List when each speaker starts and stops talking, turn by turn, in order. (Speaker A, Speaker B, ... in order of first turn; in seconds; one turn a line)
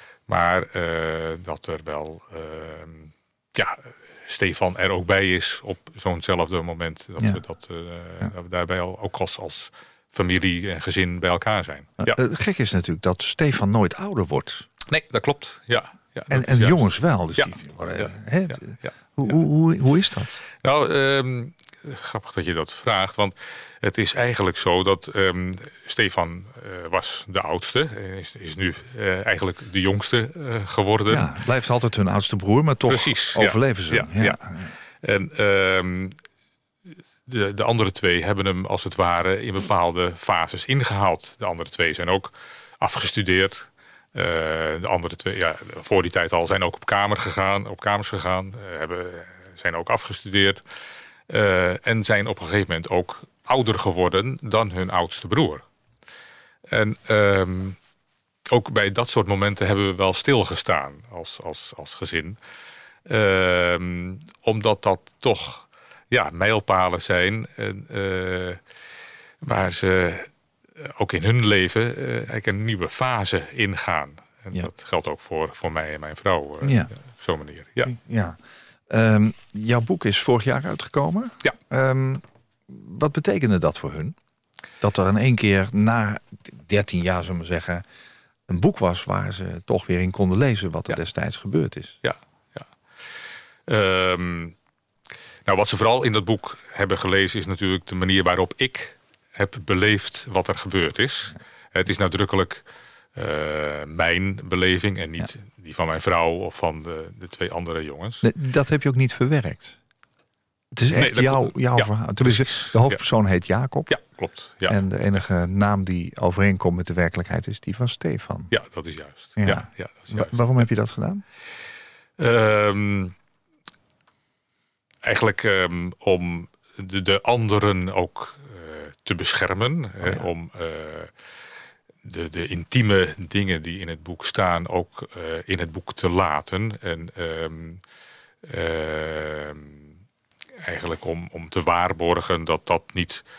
Speaker A: 0.3-12.2
Speaker B: 12.0-14.7
Speaker A: 14.9-18.9
Speaker B: 16.3-20.4
Speaker A: 20.6-31.3
Speaker B: 31.1-34.7
Speaker A: 32.9-34.4
Speaker A: 35.0-36.2
Speaker A: 37.3-50.6
Speaker A: 51.3-55.6
Speaker A: 56.7-57.8
Speaker A: 58.5-62.4
Speaker A: 63.1-68.6
Speaker A: 69.4-78.0
Speaker B: 76.6-76.9
Speaker B: 77.9-78.4
Speaker B: 78.9-84.2
Speaker B: 84.8-87.8
Speaker B: 88.5-92.0
Speaker A: 92.0-92.7
Speaker A: 93.7-94.5
Speaker A: 95.5-108.3
Speaker B: 108.2-109.8
Speaker B: 110.7-114.0
Speaker A: 111.0-113.0
Speaker A: 113.9-114.8
Speaker B: 114.7-118.5
Speaker A: 118.5-120.4
Speaker B: 119.4-121.2
Speaker A: 122.2-123.1
Speaker A: 125.0-131.1
Speaker A: 132.1-137.8
Speaker A: 138.4-139.8
Speaker A: 140.6-143.2